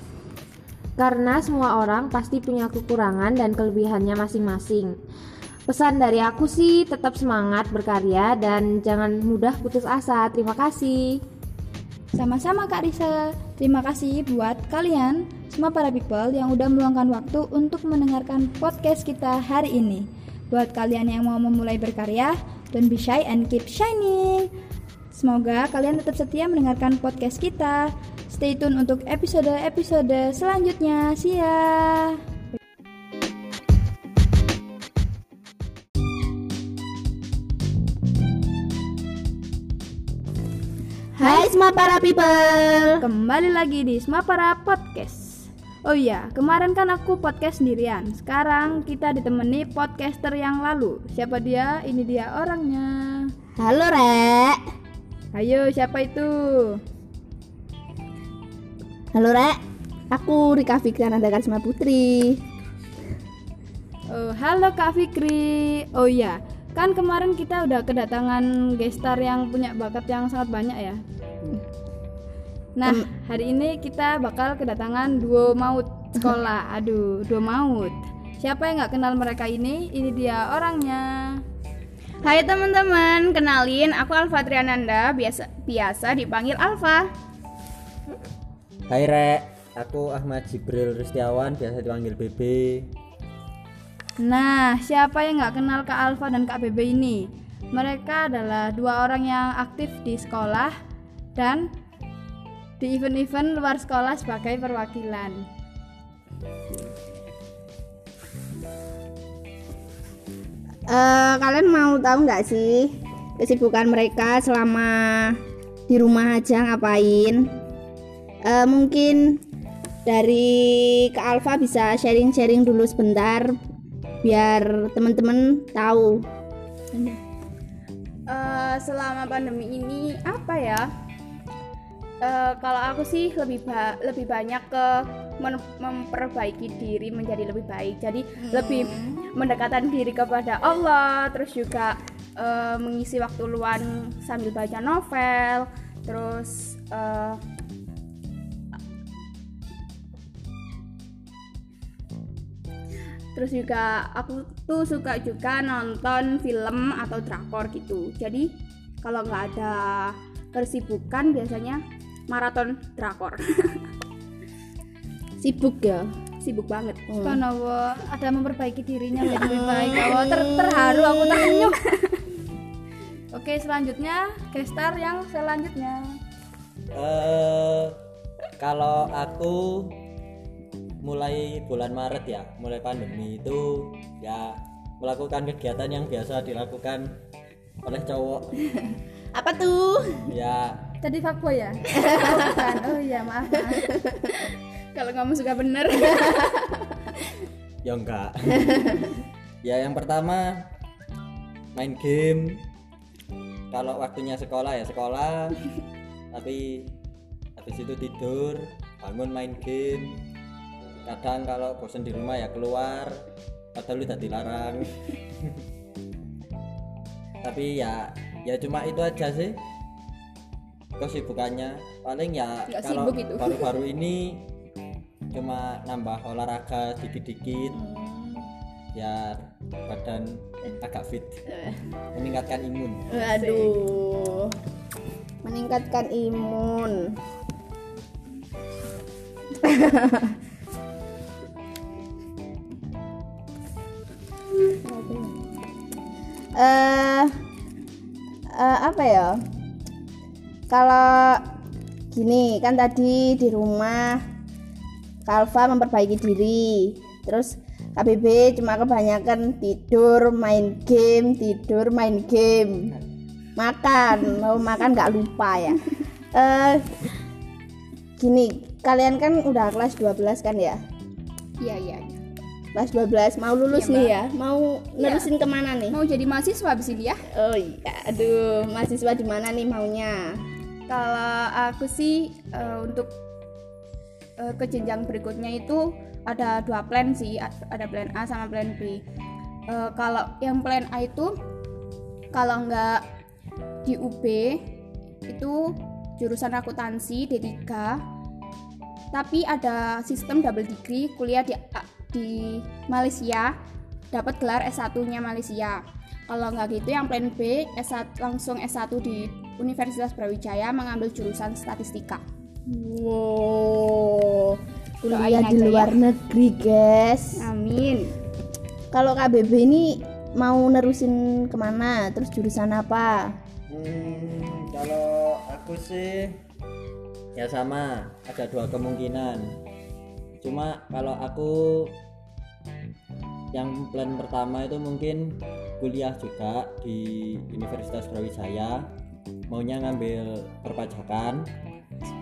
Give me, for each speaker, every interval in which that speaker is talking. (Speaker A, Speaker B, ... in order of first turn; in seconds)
Speaker A: 1.0-5.0, 5.7-11.2
Speaker B: 12.1-24.5, 25.1-32.2, 41.2-41.5, 43.0-53.3, 55.4-56.8, 64.1-71.0, 72.8-81.4, 94.2-100.8, 101.4-101.7, 102.8-105.5, 167.2-171.8, 173.3-176.2, 191.0-193.9
Speaker C: 41.2-43.0, 53.6-54.6, 59.1-59.6, 60.1-62.4, 110.9-117.5, 118.5-119.4, 120.1-123.6, 124.2-126.2, 165.4-166.2, 169.3-171.7, 189.3-190.3, 192.0-192.4, 227.7-228.5, 233.1-234.6, 235.4-237.2, 239.6-240.3, 244.9-245.2, 246.6-247.3, 248.5-249.4, 250.7-251.4, 252.1-254.2, 255.3-262.9, 263.6-267.1, 268.2-270.8, 272.8-276.0, 277.3-280.4, 312.7-317.4, 318.9-323.3
Speaker D: 82.2-87.1, 128.3-130.9, 132.2-147.4, 153.3-158.5, 159.0-163.8, 166.4-167.2, 194.9-196.8, 222.7-223.7, 233.4-233.7, 271.6-272.2, 273.7-274.1, 275.0-275.3, 275.9-277.2, 280.9-283.1, 284.4-289.0, 289.7-291.3, 292.3-293.0, 293.9-294.7, 295.3-298.0, 299.1-303.5, 304.1-312.2, 315.1-316.0, 317.4-318.1
Speaker E: 88.9-92.9, 176.9-178.0, 178.6-180.0, 181.0-187.2, 187.8-188.6, 190.3-190.9, 197.8-199.1, 199.6-200.7, 201.8-202.6, 203.7-205.6, 206.3-207.0, 207.6-210.2, 211.1-213.2, 213.8-215.6, 217.4-219.6, 221.0-224.5, 225.3-227.8, 228.9-231.4, 232.1-233.3, 323.7-326.4, 327.4-329.6, 330.4-332.0, 333.5-338.9, 339.5-341.5